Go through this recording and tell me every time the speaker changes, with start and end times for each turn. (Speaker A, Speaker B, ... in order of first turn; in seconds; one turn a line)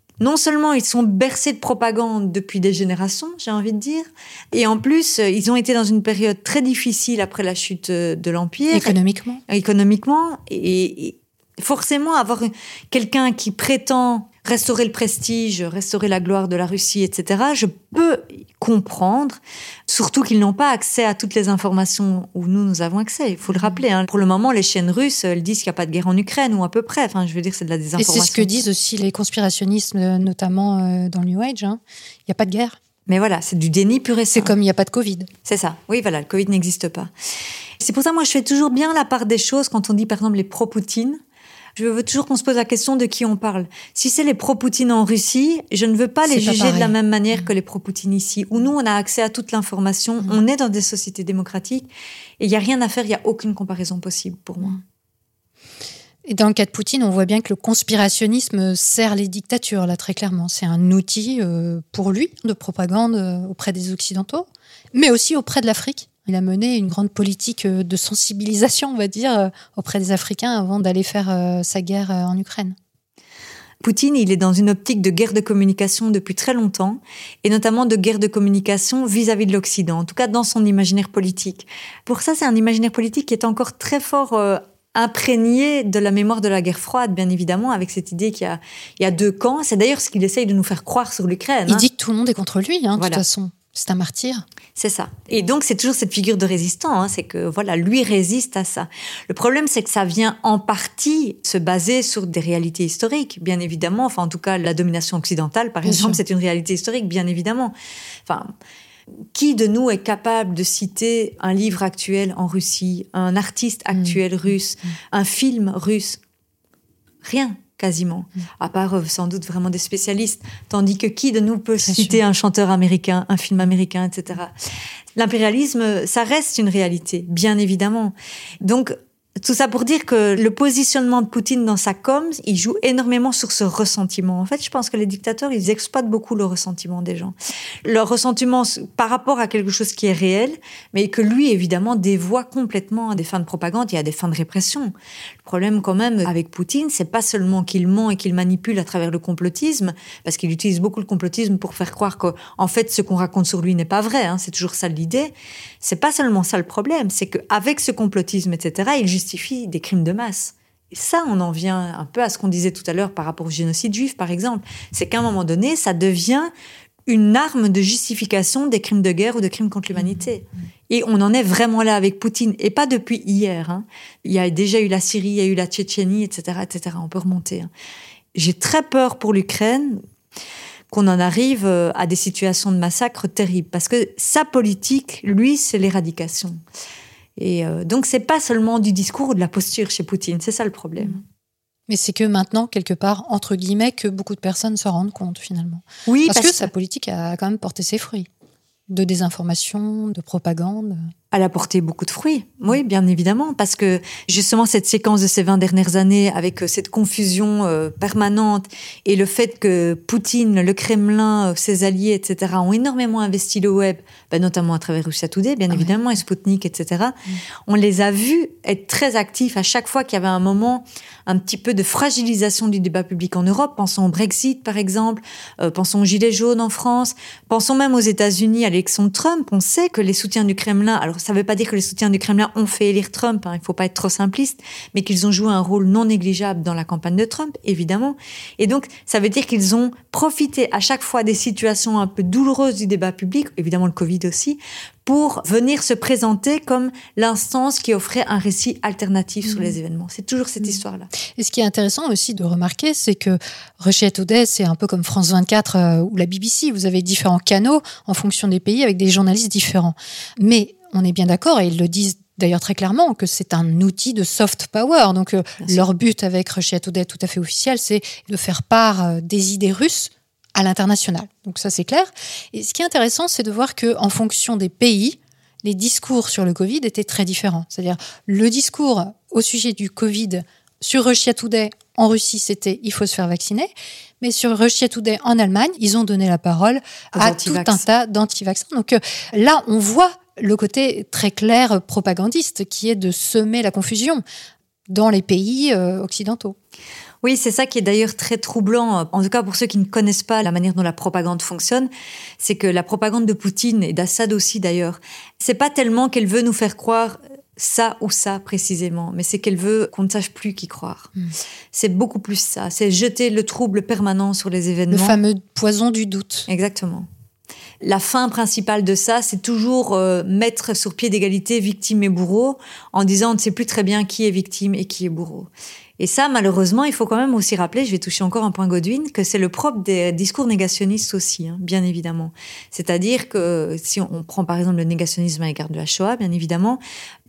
Speaker A: 0.2-8.9
Speaker B: 8.7-9.4
Speaker A: 9.5-28.7
Speaker B: 23.5-23.8
Speaker B: 28.0-32.8
Speaker A: 33.1-34.5
Speaker B: 34.3-35.3
Speaker A: 35.5-37.1
Speaker A: 37.8-41.2
Speaker A: 41.8-51.9
Speaker B: 46.3-46.9
Speaker A: 52.4-54.8
Speaker B: 56.2-72.8
Speaker A: 73.8-91.8
Speaker B: 91.7-94.4
Speaker A: 93.0-93.2
Speaker A: 94.8-107.7
Speaker B: 105.8-106.2
Speaker A: 108.2-108.5
Speaker A: 109.3-116.2
Speaker A: 117.2-124.5
Speaker B: 121.9-122.1
Speaker A: 125.2-144.9
Speaker A: 145.4-166.5
Speaker A: 167.1-177.7
Speaker A: 178.3-180.0
Speaker A: 180.9-186.6
Speaker A: 187.4-191.2
Speaker B: 191.9-198.3
Speaker A: 196.1-196.7
Speaker B: 198.9-201.1
Speaker A: 201.3-251.1
Speaker B: 251.4-283.7
Speaker B: 284.2-294.2
Speaker A: 287.1-287.8
Speaker B: 294.9-296.6
Speaker A: 297.2-311.1
Speaker A: 311.7-315.2
Speaker B: 314.9-316.5
Speaker A: 316.5-317.1
Speaker A: 317.8-336.8